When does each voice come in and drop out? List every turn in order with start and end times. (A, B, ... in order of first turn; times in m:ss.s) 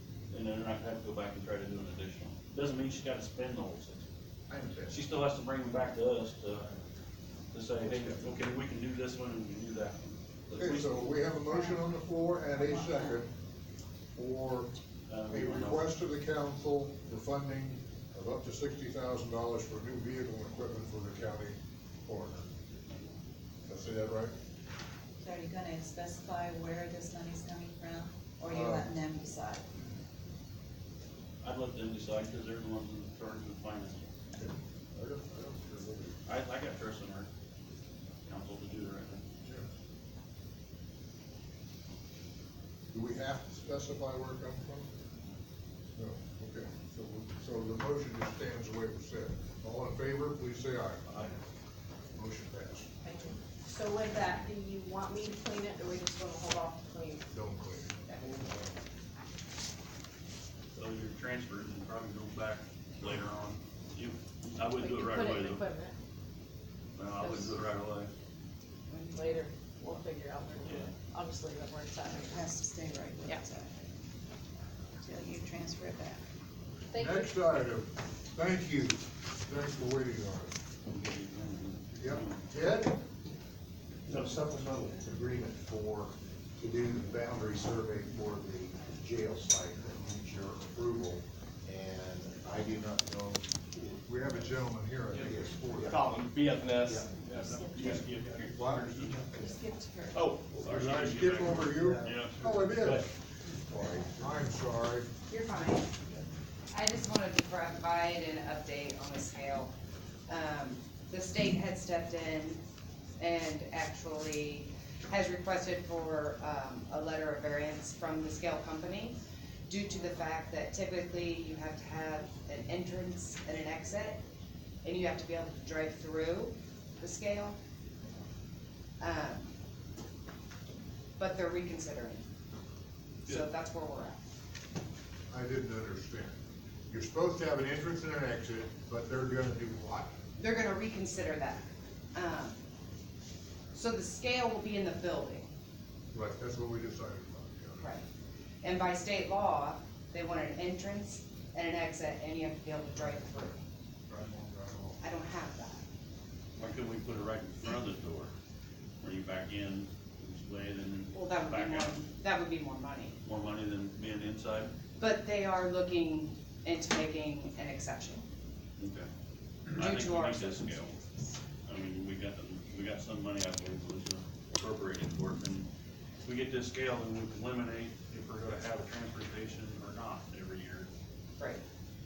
0:00.3-0:04.0 A
0:04.9-0:06.7 A
0:07.5-0:11.1 A
0:10.5-0:13.3 B
0:11.4-0:13.2 C
0:14.2-0:14.7 B
0:15.1-0:15.9 A
0:15.3-0:22.4 B
0:23.7-0:24.3 B
0:25.2-0:29.6 C
0:28.5-0:28.8 B
0:31.4-0:34.1 A
0:34.4-0:36.2 B
0:36.2-0:37.3 A
0:38.2-0:39.2 A
0:42.9-0:44.9 B
0:46.0-0:51.0 B
0:51.0-0:51.4 A
0:52.2-0:52.9 B
0:53.0-0:57.2 D
0:57.3-0:58.2 B
1:00.7-1:05.6 A
1:04.8-1:06.0 D
1:07.0-1:08.1 A
1:07.2-1:07.6 D
1:08.9-1:09.4 E
1:09.1-1:12.4 D
1:12.0-1:13.7 C
1:15.0-1:16.2 C
1:16.9-1:17.3 D
1:16.9-1:20.5 B
1:20.8-1:22.4 A
1:22.0-1:22.9 B
1:24.0-1:33.9 F
1:34.0-1:35.6 B
1:35.1-1:36.0 F
1:35.8-1:39.4 G
1:38.6-1:39.5 F
1:39.4-1:40.2 C
1:40.1-1:40.9 G
1:40.6-1:42.6 A
1:40.6-1:43.0 B
1:41.7-1:42.1 F
1:42.8-1:43.0 G
1:43.7-1:44.2 F
1:44.1-1:45.1 B
1:45.3-1:45.9 E
1:46.7-1:49.7 E
1:50.3-1:52.6 E
1:53.2-1:59.2 E
1:59.7-2:04.2 E
2:04.8-2:07.6 E
2:09.0-2:09.5 E
2:11.2-2:12.2 E
2:13.2-2:14.2 E
2:15.3-2:16.3 B
2:16.9-2:20.1 B
2:20.4-2:22.5 E
2:23.7-2:25.5 E
2:26.1-2:27.9 B
2:28.6-2:33.6 E
2:34.1-2:35.0 B
2:35.0-2:35.8 E
2:36.6-2:38.3 A
2:39.0-2:42.0 A
2:41.1-2:43.1 E
2:43.2-2:44.7 A
2:45.0-2:48.2 E
2:48.8-2:49.1 A
2:49.7-2:51.1 E
2:49.8-2:50.9 A
2:51.6-2:55.7 A
2:56.2-3:00.9 A